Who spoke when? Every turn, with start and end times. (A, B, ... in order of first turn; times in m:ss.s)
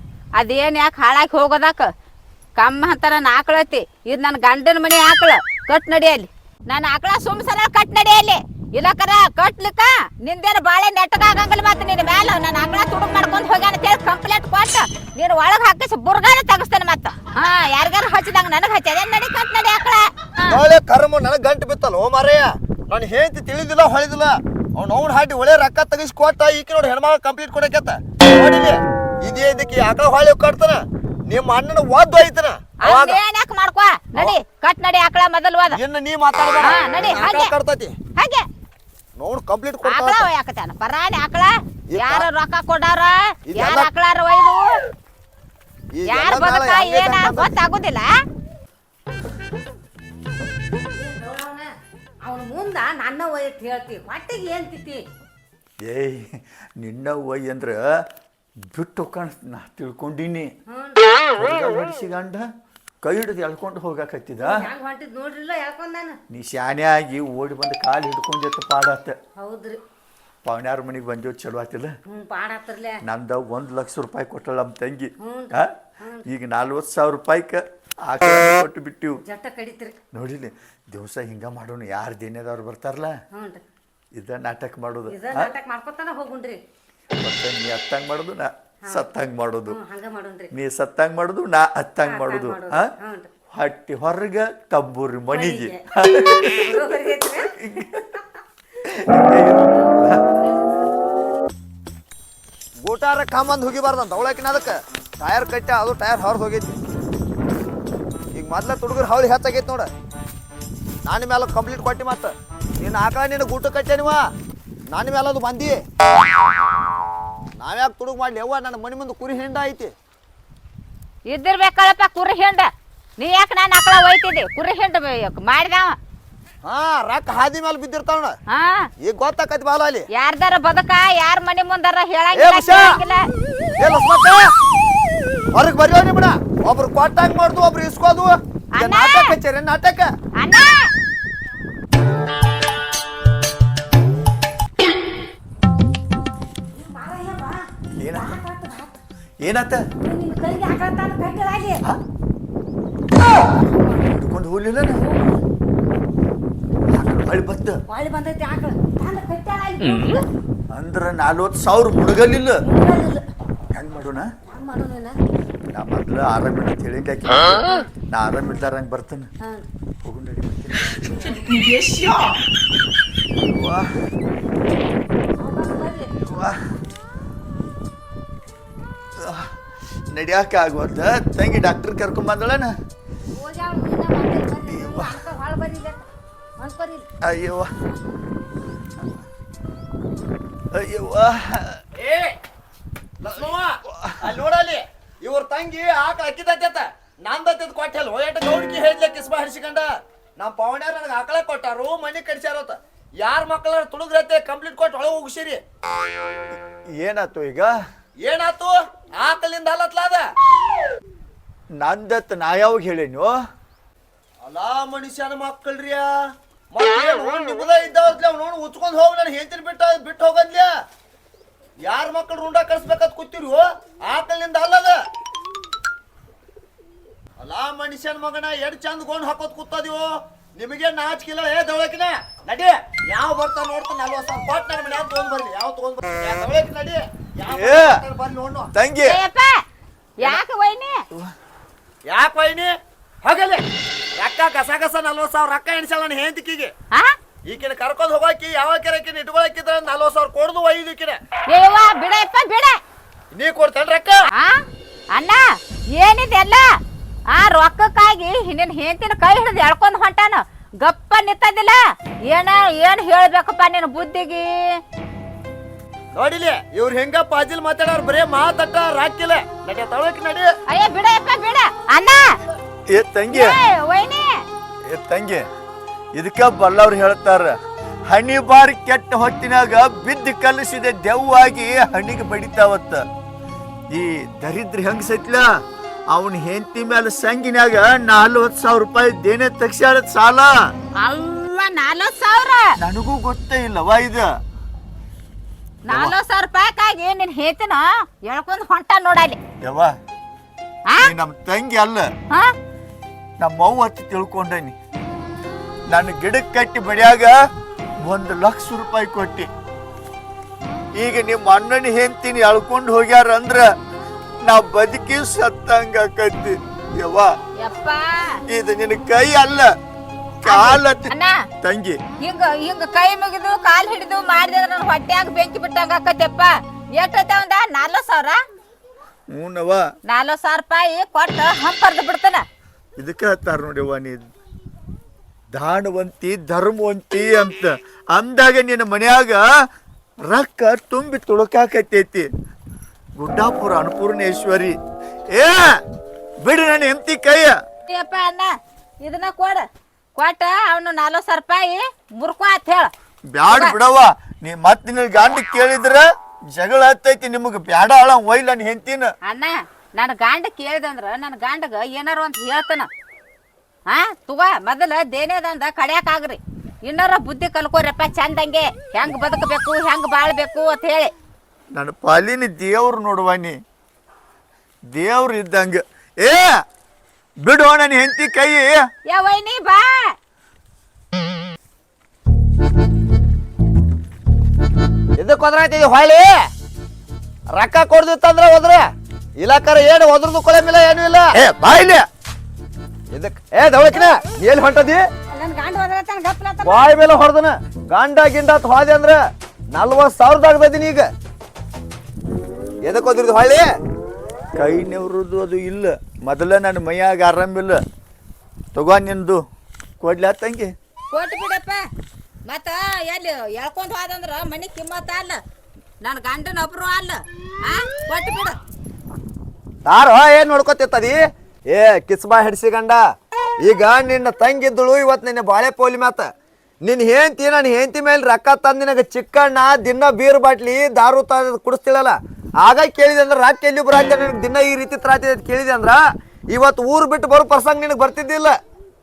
0:00.4-0:01.9 A
0:02.6-0:20.6 A
0:20.5-0:33.2 B
0:32.8-0:35.8 A
0:35.7-0:38.0 B
0:36.6-0:37.5 A
0:38.2-0:38.4 A
0:39.2-0:40.3 B
0:39.8-0:44.7 A
0:41.9-0:42.3 B
0:43.5-0:43.9 B
0:46.0-0:47.5 B
0:46.1-0:48.1 A
0:50.9-0:51.7 C
0:52.2-0:55.0 C
0:55.8-0:57.8 D
0:58.7-1:00.5 D
1:00.7-1:01.1 C
1:01.3-1:02.4 D
1:03.0-1:04.6 D
1:04.4-1:06.2 C
1:06.3-1:09.2 D
1:09.4-1:09.8 C
1:10.4-1:11.9 D
1:12.1-1:13.0 C
1:13.0-1:15.7 D
1:15.2-1:16.2 C
1:16.2-1:19.2 D
1:19.2-1:20.0 C
1:20.1-1:23.1 D
1:23.3-1:23.6 C
1:24.2-1:25.5 D
1:25.1-1:26.6 C
1:27.2-1:29.8 D
1:29.7-1:30.5 C
1:30.5-1:32.9 D
1:32.0-1:33.3 C
1:33.5-1:36.8 D
1:35.3-1:37.5 C
1:37.5-1:38.2 D
1:38.8-1:40.2 D
1:42.8-1:46.7 B
1:48.3-1:49.9 B
1:51.0-1:54.2 B
1:54.9-1:55.8 B
1:57.6-1:59.9 B
2:01.3-2:06.0 A
2:06.6-2:08.4 B
2:08.5-2:08.9 A
2:09.0-2:10.1 B
2:10.1-2:13.3 A
2:12.3-2:13.0 B
2:13.8-2:14.5 B
2:15.5-2:20.1 B
2:18.8-2:19.3 A
2:20.4-2:20.9 A
2:26.7-2:29.0 C
2:28.0-2:28.4 D
2:29.4-2:29.8 D
2:30.0-2:31.8 C
2:33.4-2:34.1 C
2:34.1-2:35.0 D
2:35.0-2:35.4 C
2:36.9-2:37.8 D
2:37.9-2:40.2 C
2:40.7-2:42.6 D
2:42.6-2:43.2 C
2:43.7-2:44.3 D
2:44.5-2:45.2 C
2:45.7-2:49.3 D
2:50.0-2:51.6 D
2:53.4-2:53.9 D
2:55.4-2:56.1 C
2:56.2-2:56.6 D
2:59.2-2:59.5 D
3:00.1-3:02.7 D
3:03.4-3:06.0 C
3:04.7-3:05.2 D
3:06.6-3:07.1 C
3:07.2-3:07.7 D
3:10.7-3:11.8 D
3:12.0-3:12.4 B
3:13.2-3:25.6 B
3:27.0-3:27.7 D
3:28.2-3:30.2 B
3:31.8-3:33.3 D
3:34.4-3:36.1 B
3:36.7-3:40.7 B
3:41.8-3:45.0 B
3:47.4-3:58.7 B
3:57.5-3:58.0 D
3:58.7-3:59.2 D
3:59.0-3:59.6 A
4:00.2-4:01.0 A
4:02.1-4:03.6 B
4:04.2-4:06.7 B
4:07.4-4:11.2 B
4:11.5-4:12.8 A
4:13.3-4:14.3 B
4:14.3-4:14.6 A
4:15.1-4:16.7 A
4:17.3-4:24.8 A
4:26.2-4:30.5 B
4:30.7-4:32.3 A
4:32.9-4:33.6 D
4:33.3-4:34.4 A
4:34.9-4:35.4 D
4:36.2-4:37.5 D
4:38.1-4:43.0 D
4:43.9-4:45.4 D
4:46.1-4:50.5 D
4:51.0-4:52.7 A
4:52.8-4:54.3 D
4:55.9-4:56.2 D
4:55.9-4:59.4 A
4:59.6-4:59.9 D
5:01.0-5:02.1 D
5:03.4-5:04.8 D
5:05.9-5:07.3 D
5:08.0-5:09.5 D
5:11.0-5:13.7 D
5:14.5-5:17.3 D
5:17.6-5:18.4 A
5:18.5-5:19.7 D
5:20.4-5:22.0 D
5:20.4-5:21.4 A
5:22.2-5:28.4 A
5:29.3-5:29.8 D
5:30.1-5:32.4 A
5:33.0-5:34.3 D
5:35.5-5:39.4 D
5:40.3-5:42.3 D
5:43.2-5:44.8 D
5:45.3-5:45.8 D
5:46.4-5:47.6 D
5:47.9-5:48.5 A
5:49.0-5:52.9 A
5:53.3-5:59.1 D
5:53.5-5:53.8 A
5:59.3-6:02.9 A
6:03.9-6:11.1 A
6:11.7-6:13.5 D
6:14.9-6:16.5 D
6:17.4-6:18.7 D
6:19.1-6:20.1 A
6:25.2-6:26.4 B
6:27.5-6:31.4 B
6:31.3-6:32.1 D
6:33.1-6:35.0 B
6:35.3-6:36.9 C
6:36.6-6:39.2 B
6:39.7-6:41.1 B
6:42.8-6:43.7 B
6:44.6-6:47.8 D
6:48.8-6:49.4 D
6:50.0-6:50.7 D
6:51.1-6:51.8 A
6:52.5-6:55.4 A
6:56.0-6:58.6 A
6:59.9-7:03.0 B
7:03.6-7:06.3 B
7:06.8-7:18.6 B